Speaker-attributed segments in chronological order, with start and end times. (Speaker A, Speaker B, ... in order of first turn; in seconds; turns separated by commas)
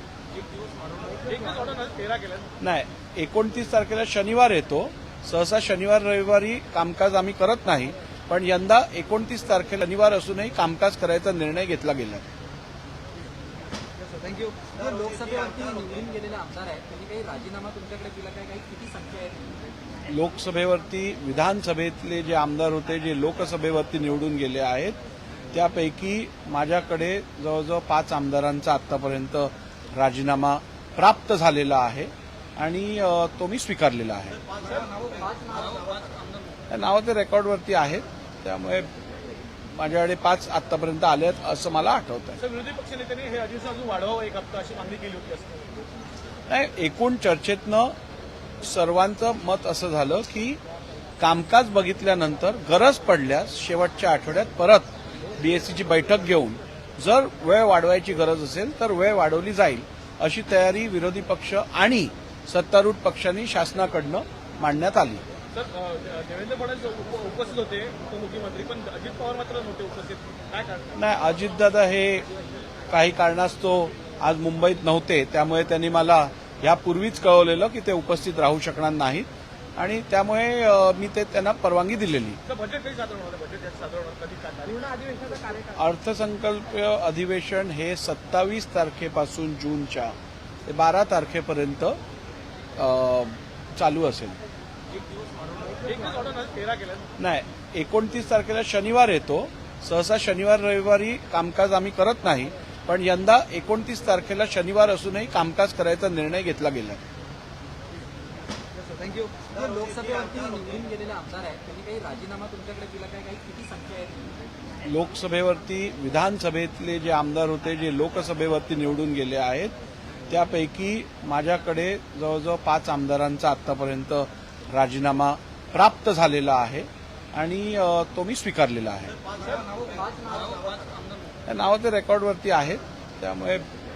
Speaker A: 0.8-1.1, Speaker B: 1.1-2.5, Speaker C: 2.6-12.3, Speaker A: 14.1-19.7, Speaker C: 20.1-25.0, Speaker C: 25.5-34.4, Speaker B: 34.6-35.1, Speaker A: 35.0-36.1, Speaker C: 36.7-38.9, Speaker C: 39.7-42.4, Speaker B: 42.4-45.8, Speaker C: 46.5-48.0, Speaker C: 48.6-50.6, Speaker C: 51.2-65.2, Speaker B: 65.5-71.0, Speaker C: 71.0-72.3, Speaker C: 72.9-82.4, Speaker B: 82.5-85.5, Speaker C: 85.7-90.2, Speaker C: 90.7-92.0, Speaker C: 92.8-94.4, Speaker B: 95.7-97.1, Speaker C: 97.2-107.0, Speaker A: 108.8-114.4, Speaker C: 114.8-119.8, Speaker C: 120.3-129.2, Speaker A: 129.7-130.9, Speaker C: 131.5-133.7